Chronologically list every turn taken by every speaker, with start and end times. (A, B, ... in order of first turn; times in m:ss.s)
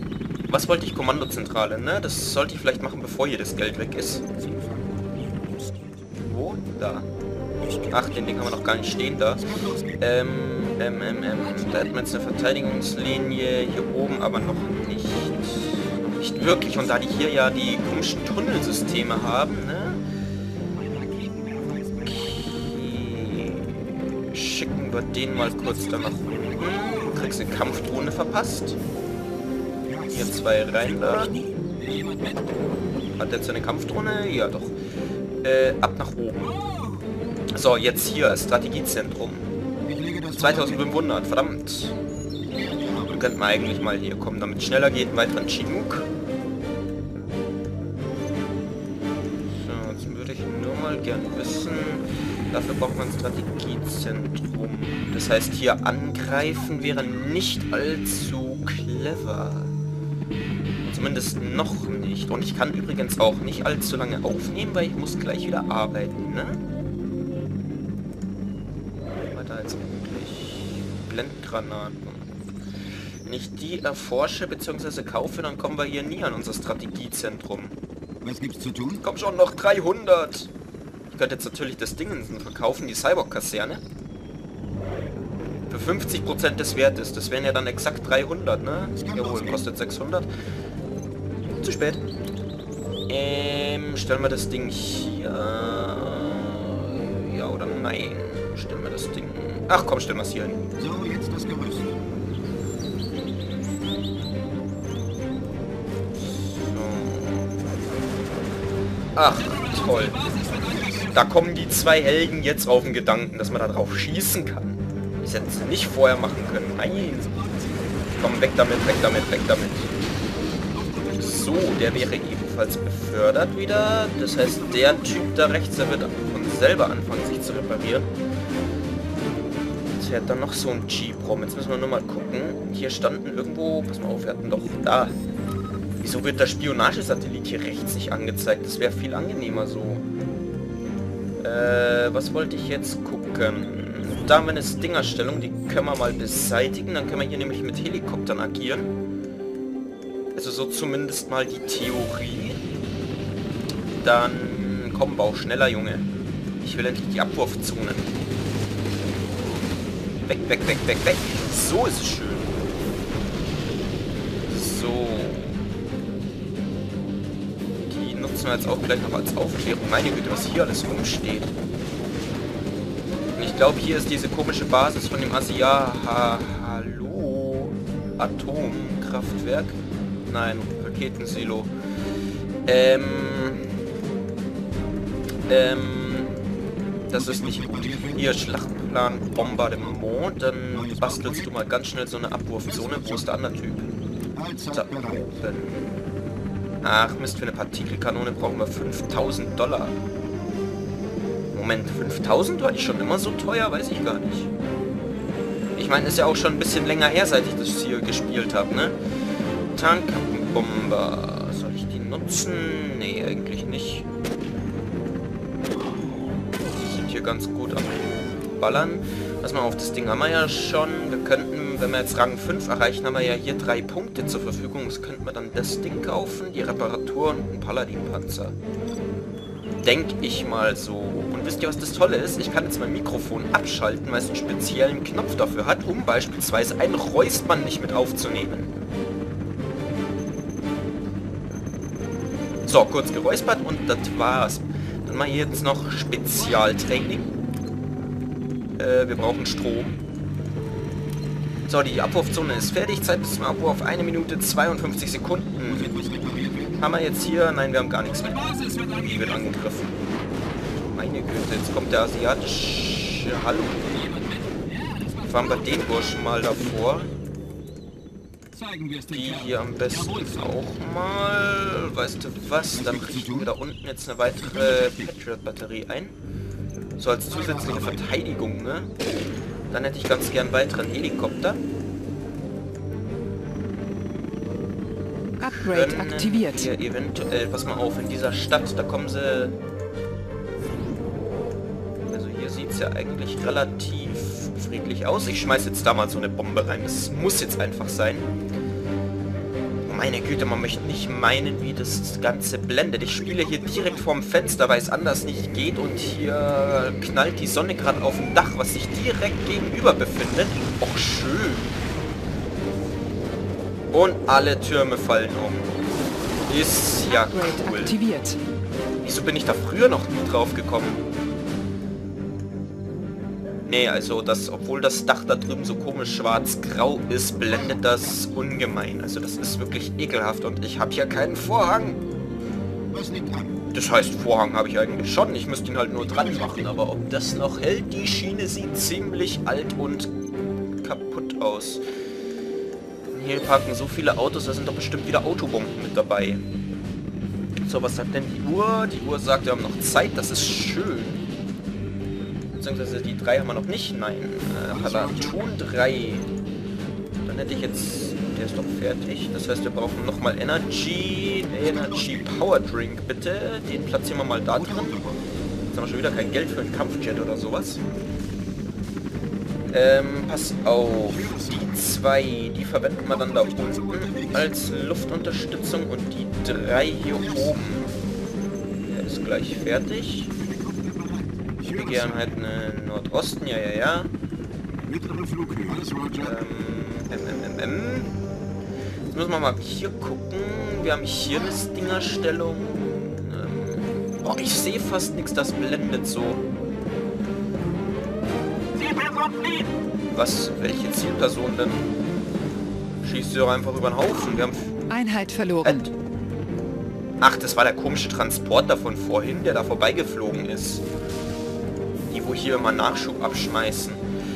0:00.5-0:04.3 A
0:06.2-0:07.1 A
0:07.9-0:20.0 A
0:22.0-0:28.8 A
0:30.1-0:31.4 A
0:33.2-0:34.8 A
0:35.4-0:36.5 A
0:37.5-0:39.5 A
0:40.2-0:42.0 A
0:43.0-0:46.1 A
0:49.5-0:59.7 A
1:00.8-1:06.6 A
1:09.3-1:12.3 A
1:13.2-1:17.8 A
1:18.2-1:18.9 B
1:18.9-1:20.5 A
1:21.1-1:23.8 A
1:25.7-1:30.3 A
1:31.5-1:32.0 A
1:33.1-1:40.7 A
1:40.9-1:41.9 B
1:46.2-1:47.5 A
1:49.2-1:50.3 A
1:50.8-1:57.3 A
1:58.2-1:59.9 A
2:01.1-2:08.1 A
2:10.0-2:15.2 A
2:16.0-2:20.0 A
2:21.4-2:28.9 A
2:30.4-2:32.6 A
2:34.0-2:36.1 A
2:36.6-2:38.1 A
2:40.3-2:42.6 A
2:44.5-2:45.6 A
2:47.8-2:51.5 A
2:53.4-3:01.7 A
3:02.7-3:03.7 A
3:05.5-3:06.3 A
3:07.1-3:14.0 A
3:14.7-3:16.0 A
3:16.8-3:20.0 A
3:21.5-3:24.5 A
3:25.8-3:29.0 A
3:29.7-3:34.1 A
3:36.6-3:48.6 A
3:49.8-3:58.7 A
4:02.7-4:07.3 A
4:08.8-4:10.0 A
4:11.7-4:16.0 A
4:16.8-4:20.0 A
4:20.9-4:24.0 A
4:25.2-4:27.1 A
4:29.0-4:36.2 A
4:37.0-4:38.9 A
4:39.7-4:41.6 A
4:45.4-4:46.7 C
4:45.4-4:49.6 A
4:52.1-4:58.3 A
4:59.8-5:11.8 A
5:13.9-5:15.8 A
5:16.5-5:18.0 A
5:17.1-5:18.4 C
5:19.0-5:21.0 A
5:23.7-5:32.0 A
5:33.0-5:33.4 B
5:33.7-5:40.1 A
5:40.8-5:41.8 A
5:43.1-5:46.4 A
5:47.6-5:51.2 A
5:52.6-5:56.3 A
5:57.2-6:05.1 A
6:05.7-6:07.8 A
6:09.7-6:17.9 A
6:18.9-6:20.3 A
6:21.6-6:24.1 A
6:25.2-6:26.0 B
6:26.1-6:28.2 A
6:29.1-6:36.4 A
6:40.1-6:41.9 A
6:43.0-6:44.8 A
6:44.9-6:45.9 C
6:45.6-6:45.9 A
6:47.2-6:50.8 A
6:52.1-6:54.0 A